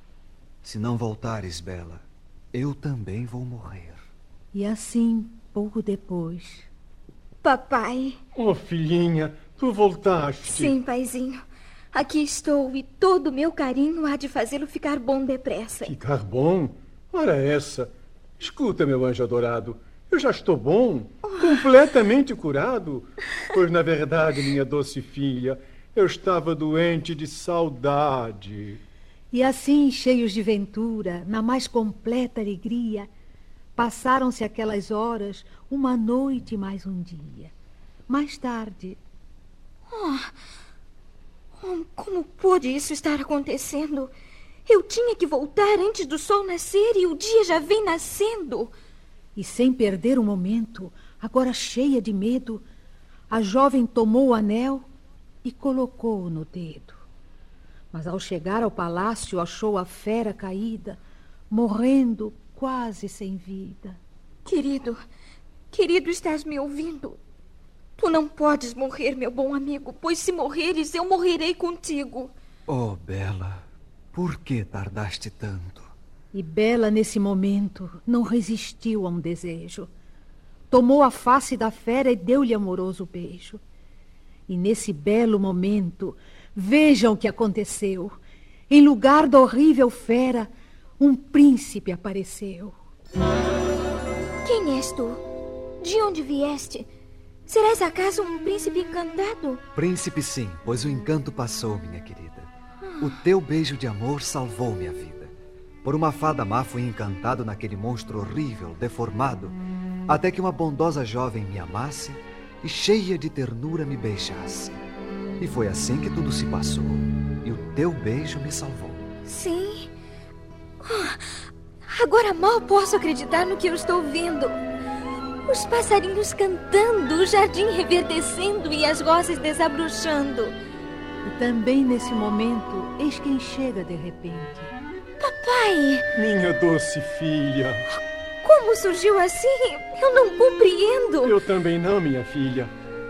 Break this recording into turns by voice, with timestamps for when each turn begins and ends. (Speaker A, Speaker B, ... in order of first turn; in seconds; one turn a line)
Speaker A: 0.6-4.0
Speaker B: 4.5-6.7
Speaker C: 7.4-8.2
Speaker D: 8.3-10.8
Speaker C: 10.5-11.4
Speaker C: 11.9-15.9
Speaker D: 15.8-28.8
Speaker B: 29.3-33.1
Speaker B: 33.8-37.5
Speaker B: 38.1-39.0
Speaker C: 39.9-40.3
Speaker C: 41.6-44.1
Speaker C: 44.7-48.7
Speaker B: 49.4-52.6
Speaker B: 53.3-54.9
Speaker B: 55.4-57.0
Speaker B: 57.9-61.0
Speaker B: 61.5-64.0
Speaker C: 64.5-65.0
Speaker C: 65.7-67.2
Speaker C: 68.0-72.3
Speaker A: 72.7-75.9
Speaker B: 76.3-79.9
Speaker B: 80.7-83.6
Speaker B: 84.5-88.2
Speaker B: 88.7-92.8
Speaker C: 94.5-95.2
Speaker C: 95.8-96.9
Speaker C: 97.5-99.6
Speaker A: 99.8-102.5
Speaker A: 103.0-114.8
Speaker A: 115.4-119.0
Speaker C: 119.3-119.9
Speaker C: 120.8-121.2
Speaker C: 121.9-124.6
Speaker C: 125.5-130.5
Speaker B: 131.2-134.8
Speaker C: 135.2-136.1
Speaker D: 136.2-137.9
Speaker C: 138.4-141.3
Speaker D: 141.2-142.7